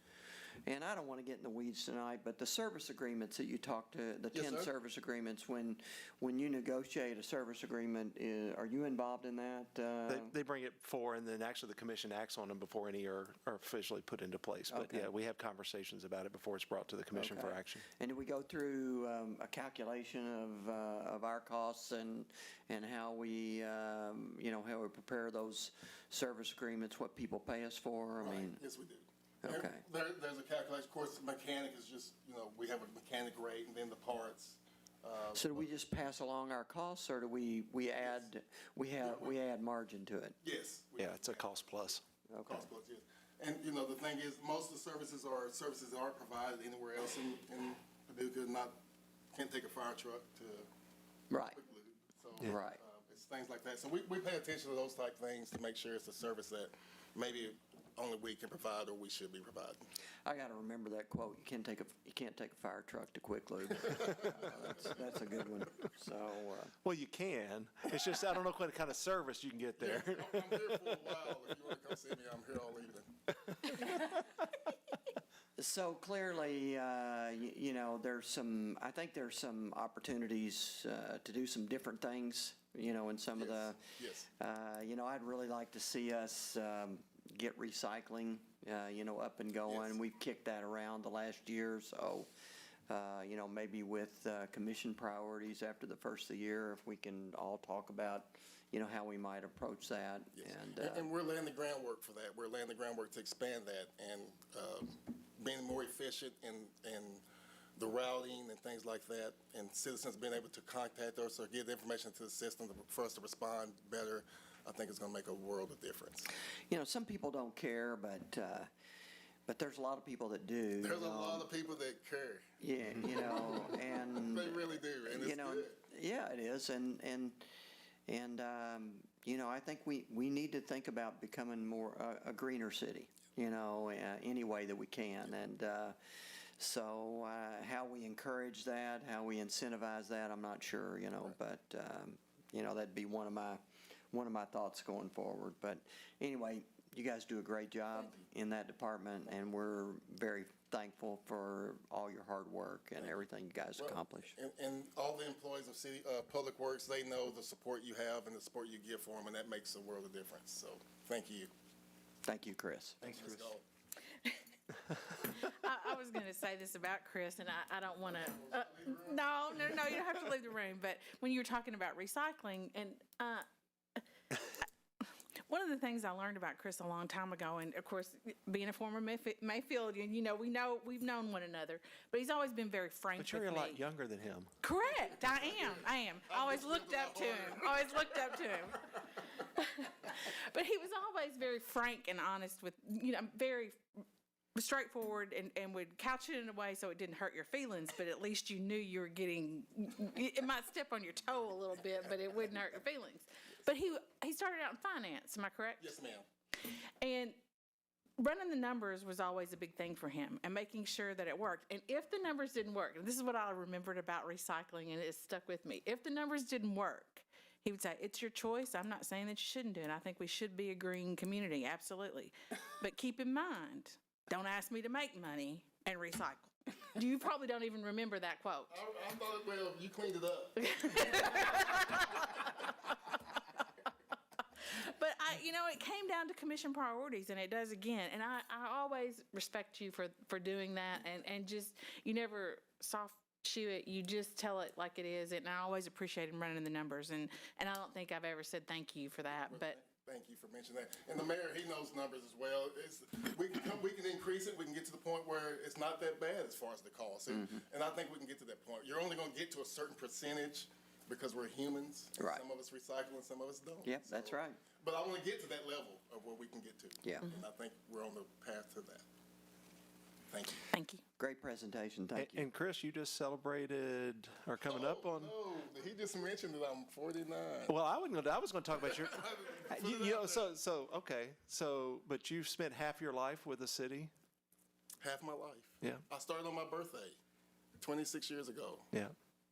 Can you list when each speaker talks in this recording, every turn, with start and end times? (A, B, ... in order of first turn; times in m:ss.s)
0:00.7-0:10.3 A
0:04.3-0:04.7 B
0:10.1-0:17.8 C
0:14.7-0:15.1 A
0:17.1-0:28.6 A
0:28.2-0:35.7 B
0:29.4-0:29.8 A
0:35.3-0:40.4 A
0:39.0-0:39.3 B
0:40.4-0:41.8 B
0:41.0-0:42.0 C
0:42.3-0:42.7 A
0:42.4-0:48.8 B
0:49.3-0:50.7 B
0:51.3-0:51.6 A
0:51.5-0:59.8 B
0:52.4-0:52.8 A
1:00.2-1:06.7 A
1:06.8-1:10.9 C
1:09.8-1:13.1 B
1:15.6-1:32.3 A
1:23.4-1:24.3 B
1:29.7-1:29.9 B
1:32.9-1:41.1 A
1:40.4-1:47.2 B
1:47.8-1:56.3 B
1:56.7-1:58.7 A
1:59.5-2:01.5 A
2:00.8-2:02.5 B
2:02.6-2:07.5 A
2:03.3-2:05.8 B
2:08.1-2:16.0 A
2:16.6-2:23.6 A
2:24.1-2:34.4 A
2:33.8-2:41.5 B
2:42.2-2:43.0 A
2:43.0-2:43.5 C
2:43.0-2:43.6 B
2:45.1-2:53.4 D
2:48.1-2:49.7 B
2:54.0-3:03.8 D
3:03.2-3:04.5 C
3:04.6-3:13.8 D
3:05.3-3:08.4 B
3:14.6-3:26.0 D
3:25.8-3:26.2 B
3:26.6-3:27.4 D
3:28.2-3:48.7 D
3:48.7-3:51.2 B
3:50.6-3:52.4 D
3:54.6-4:09.8 D
4:09.3-4:29.0 B
4:17.3-4:17.6 A
4:22.2-4:22.4 A
4:23.8-4:24.6 A
4:27.0-4:27.3 A
4:30.3-4:30.7 B
4:30.7-4:31.0 D
4:31.2-4:32.4 A
4:32.1-4:35.3 C
4:34.6-4:37.7 B
4:37.7-4:44.1 C
4:39.0-4:40.5 B
4:45.0-4:47.2 B
4:47.8-4:48.9 B